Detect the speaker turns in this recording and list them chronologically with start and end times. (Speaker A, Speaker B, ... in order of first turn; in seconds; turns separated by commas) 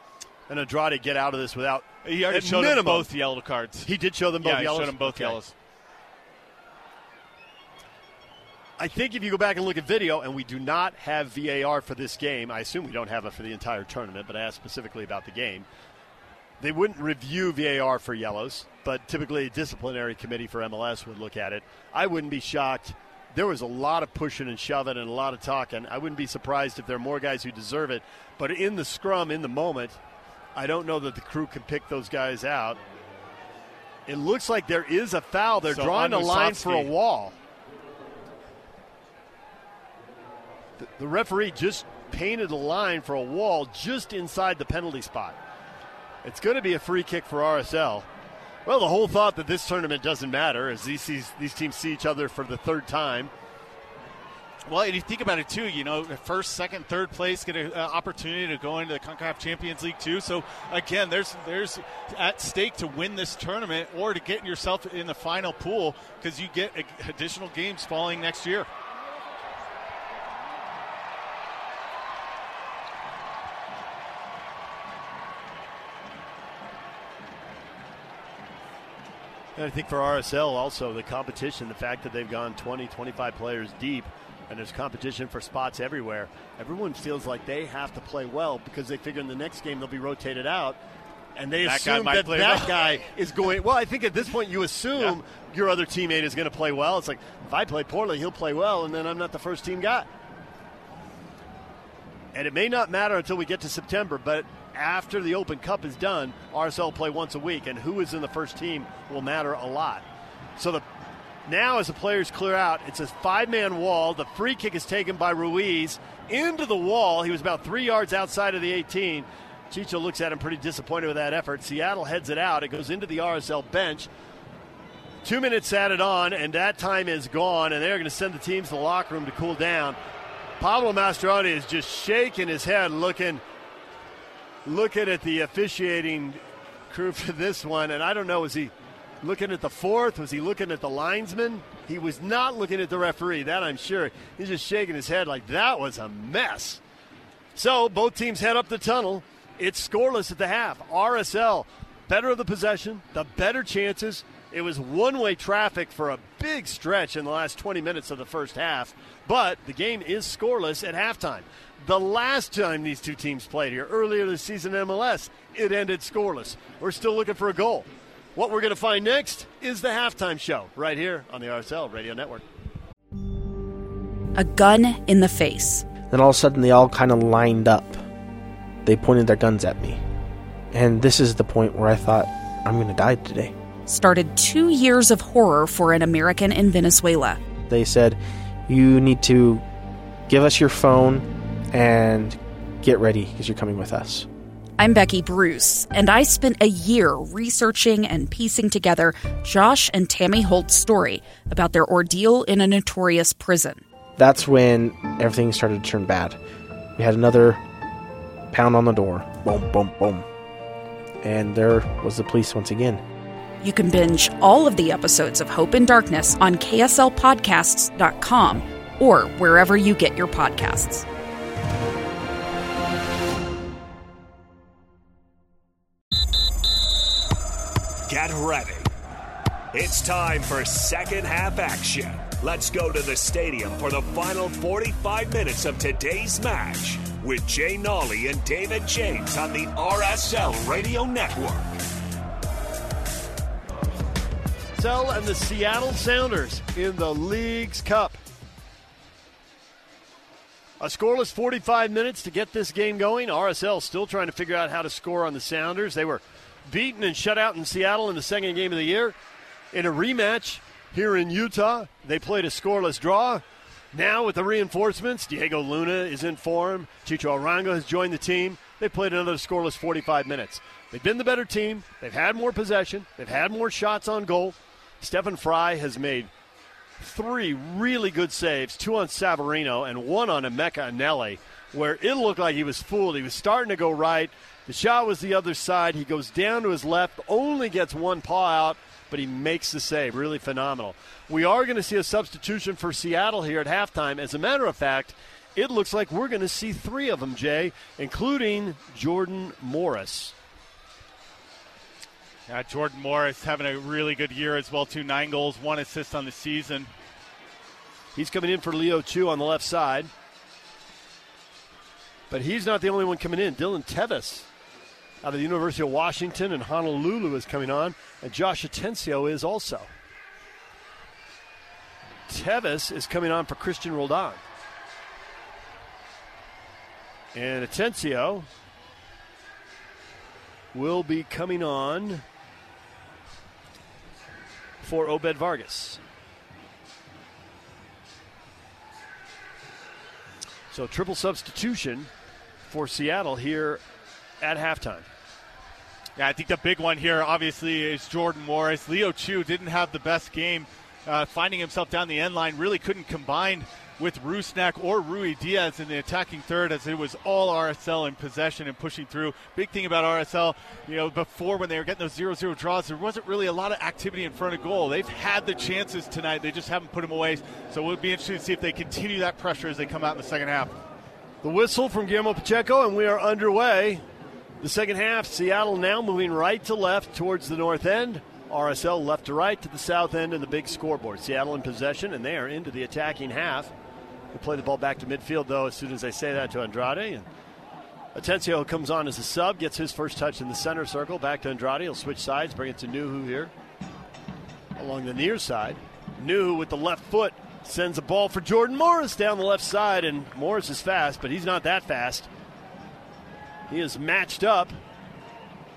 Speaker A: 0.5-3.1, Speaker B: 2.0-3.9, Speaker A: 3.8-5.4, Speaker B: 4.4-5.5, Speaker A: 8.8-15.7, Speaker A: 16.6-30.0, Speaker A: 30.5-32.8, Speaker A: 34.0-37.4, Speaker B: 35.7-36.9, Speaker A: 40.8-45.4, Speaker A: 46.2-48.1, Speaker A: 48.6-53.3, Speaker B: 54.6-68.7, Speaker A: 79.5-90.8, Speaker A: 91.3-100.1, Speaker B: 91.6-92.9, Speaker A: 102.3-110.0, Speaker A: 110.5-110.8, Speaker A: 111.5-124.1, Speaker A: 125.2-130.0, Speaker A: 130.6-133.4, Speaker A: 134.6-146.8, Speaker A: 147.5-172.4, Speaker C: 174.3-175.9, Speaker D: 176.0-178.0, Speaker D: 178.8-180.0, Speaker D: 180.7-183.5, Speaker C: 183.9-187.4, Speaker D: 187.7-189.6, Speaker D: 190.3-194.3, Speaker C: 194.8-203.8, Speaker D: 204.2-206.4, Speaker D: 206.9-207.6, Speaker D: 208.5-210.3, Speaker D: 211.2-213.0, Speaker C: 213.6-221.1, Speaker E: 228.1-228.9, Speaker E: 229.7-241.8, Speaker A: 244.8-248.2, Speaker A: 250.8-259.1, Speaker A: 259.7-276.3, Speaker A: 277.0-300.3, Speaker B: 302.5-306.9, Speaker A: 308.1-310.1, Speaker A: 312.3-314.5, Speaker A: 315.2-319.9, Speaker A: 322.3-324.4, Speaker A: 327.3-328.5, Speaker A: 330.7-332.2, Speaker A: 334.8-336.0, Speaker A: 340.7-342.1, Speaker A: 342.7-343.8, Speaker A: 344.4-345.1, Speaker B: 346.2-370.7, Speaker A: 371.4-374.0, Speaker A: 374.6-383.7, Speaker A: 384.3-387.3, Speaker A: 388.1-393.5, Speaker A: 394.8-402.3, Speaker A: 403.7-404.8